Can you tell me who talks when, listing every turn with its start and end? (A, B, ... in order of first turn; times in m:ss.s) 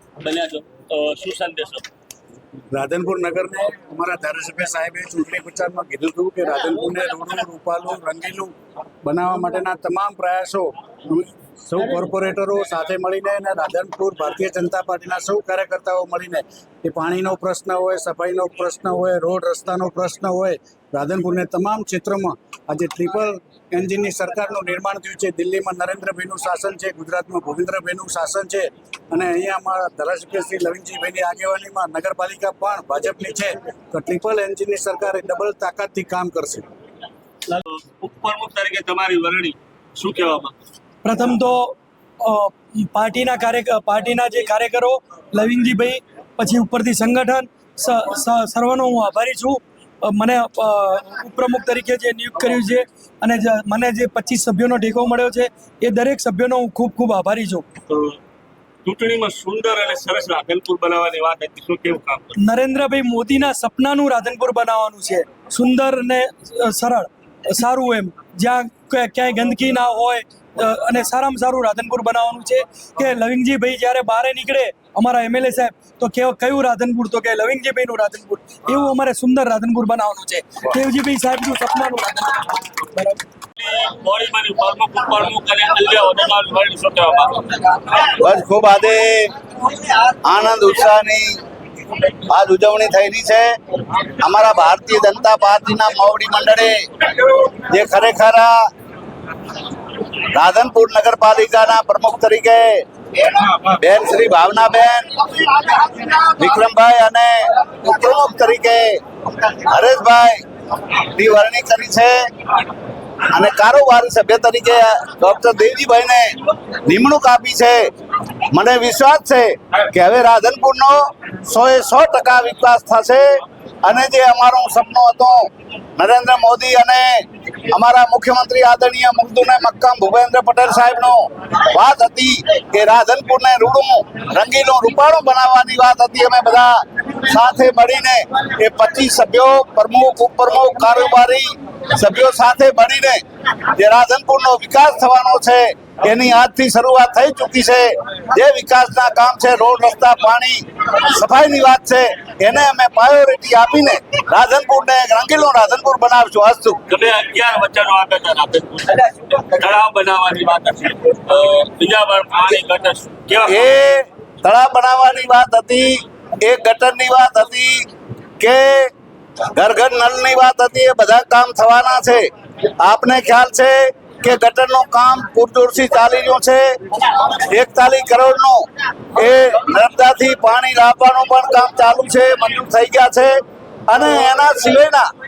0:00.2-0:01.8 A
0:02.7-0:08.5 B
0:09.0-0:36.7 B
0:37.5-0:40.5 A
0:41.0-0:57.6 C
0:57.9-0:58.2 A
0:58.8-1:02.4 A
1:02.4-1:23.2 C
1:23.6-1:27.6 A
1:28.1-1:29.3 D
1:30.2-1:31.4 D
1:32.3-1:36.8 D
1:37.3-1:38.5 D
1:40.3-1:49.0 D
1:49.5-1:50.4 D
1:51.1-1:52.2 D
1:53.3-1:57.9 D
1:58.5-2:03.2 D
2:03.8-2:05.4 D
2:06.0-2:23.2 D
2:23.8-2:36.8 D
2:36.9-2:43.8 A
2:43.5-2:47.9 D
2:48.4-2:48.9 D
2:49.6-2:52.3 D
2:52.8-2:58.6 D
2:59.2-3:03.3 D
3:03.9-3:05.0 D